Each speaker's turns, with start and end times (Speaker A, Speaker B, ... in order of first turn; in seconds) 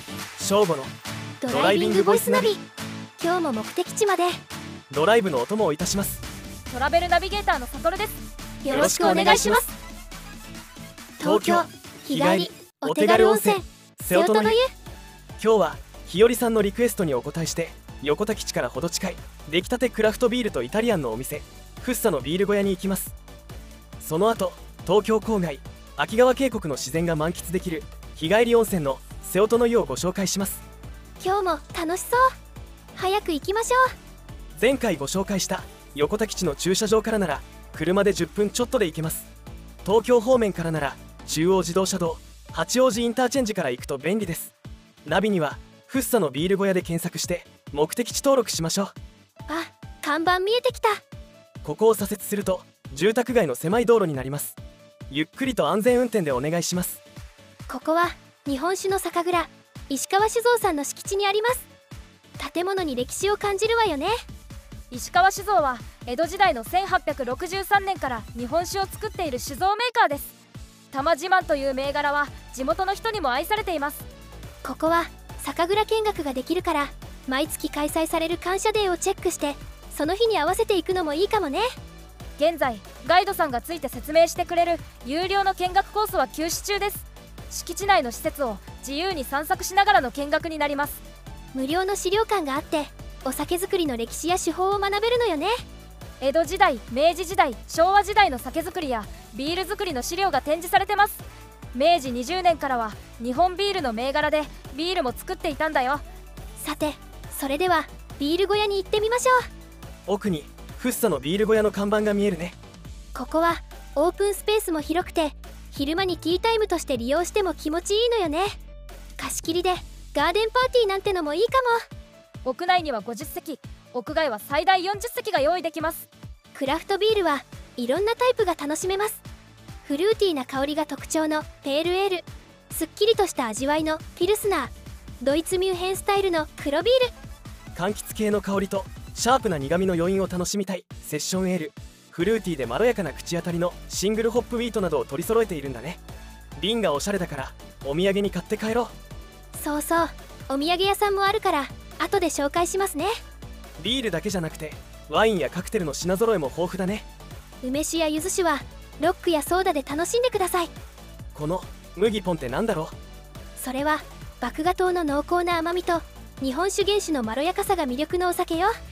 Speaker A: 0.4-0.9, 1.5-2.5, 4.9-6.2, 8.7-9.6, 11.2-14.6, 15.4-23.1, 24.0-30.6, 34.6-39.3, 39.9-44.5, 45.0-48.9, 51.6-54.6, 55.1-57.0, 110.1-112.6, 137.8-146.0, 146.6-148.9, 153.8-157.1, 161.3-163.0
Speaker B: 1.4-2.6, 3.2-4.4, 8.6-9.7, 11.2-14.7, 31.2-32.3, 33.0-33.9, 49.5-51.0, 57.7-61.7, 62.4-64.1, 74.6-81.7, 91.5-95.5, 106.6-109.4, 113.2-118.6, 119.2-121.8, 126.5-129.2, 129.8-137.1, 149.6-153.1, 157.6-160.7, 163.6-168.7
Speaker C: 6.7-9.6, 64.9-70.3, 70.9-74.1, 82.4-91.0, 96.2-106.0, 122.4-126.1